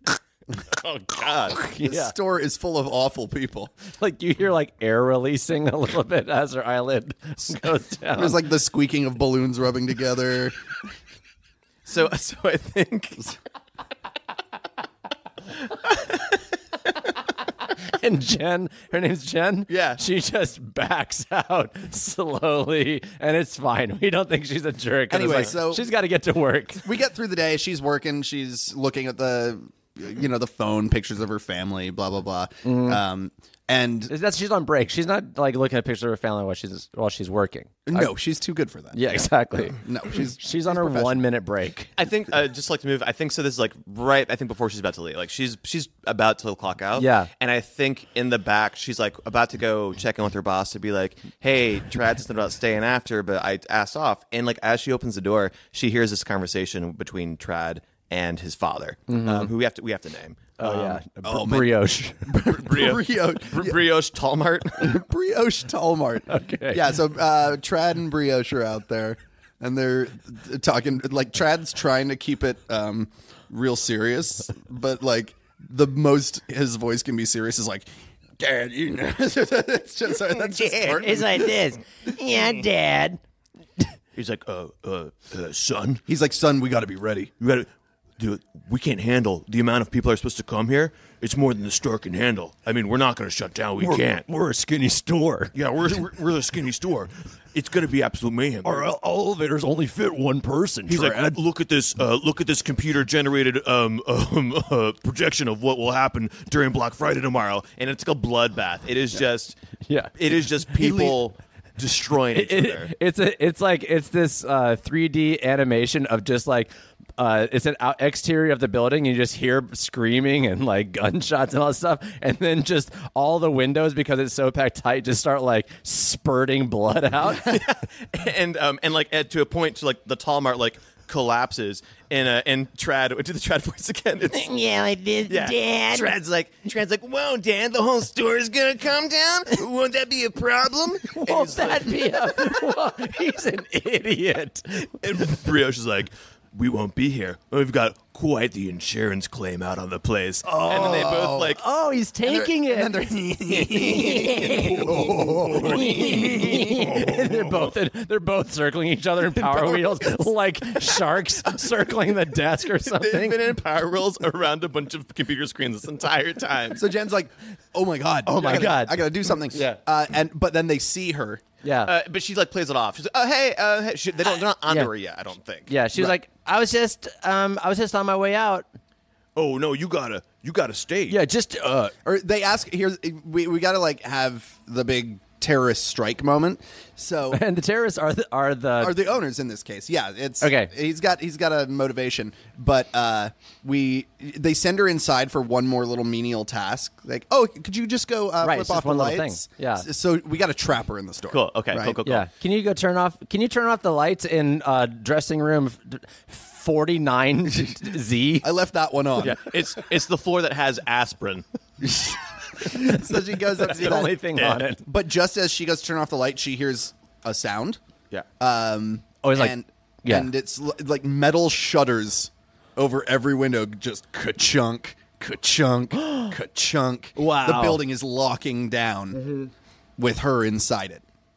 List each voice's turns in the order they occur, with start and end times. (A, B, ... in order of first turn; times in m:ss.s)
0:00.6-0:01.6 A
0:01.7-0:02.1 B
0:01.8-0:03.7 C
0:04.0-0:08.4 B
0:08.2-0:10.6 C
0:11.9-0:13.3 A
0:15.9-0:16.2 A
0:17.9-0:26.9 B
0:19.7-0:20.0 A
0:25.1-0:25.9 C
0:26.8-0:34.1 C
0:32.6-0:33.0 B
0:34.1-0:38.1 B
0:37.9-0:39.2 C
0:38.9-0:39.8 B
0:39.8-0:41.2 C
0:40.4-0:41.9 B
0:42.0-1:01.0 A
0:47.0-0:47.3 B
0:59.1-0:59.5 B
1:00.6-1:02.4 B
1:01.2-1:03.8 C
1:02.6-1:05.0 A
1:04.8-1:21.5 C
1:06.3-1:06.8 B
1:20.3-1:21.2 A
1:20.9-1:23.2 B
1:24.2-1:26.0 A
1:26.1-1:27.3 C
1:27.4-1:27.7 A
1:28.2-1:34.2 A
1:33.8-1:35.5 B
1:35.5-1:38.9 A
1:38.6-1:41.4 B
1:40.9-1:49.6 A
1:49.9-1:50.1 B
1:50.2-1:52.9 A
1:50.8-1:51.1 C
1:52.3-2:07.6 B
2:07.4-2:14.5 A
2:14.3-2:16.1 B
2:15.3-2:22.5 A
2:21.1-2:24.9 B
2:24.9-2:31.6 A
2:30.4-2:31.6 C
2:31.6-2:43.4 B
2:32.2-2:37.3 C
2:39.4-2:40.1 C
2:42.7-2:46.8 A
2:46.8-2:51.4 C
2:48.3-2:49.8 B
2:51.6-2:51.9 B
2:51.8-2:55.7 A
2:55.7-2:58.6 B
2:59.4-3:01.2 A
3:01.1-3:01.9 B
3:02.0-3:07.4 C
3:07.3-3:09.0 B
3:08.8-3:22.0 C
3:10.4-3:10.7 B
3:18.4-3:19.9 B
3:21.3-3:22.3 A
3:22.0-3:28.5 B
3:28.4-3:29.4 C
3:29.2-3:31.4 A
3:31.8-3:34.2 C
3:32.7-3:34.8 B
3:34.4-3:34.6 A
3:34.8-3:37.8 C
3:38.4-3:49.3 C
3:39.2-3:40.3 B
3:47.2-3:47.8 B
3:50.0-3:51.0 C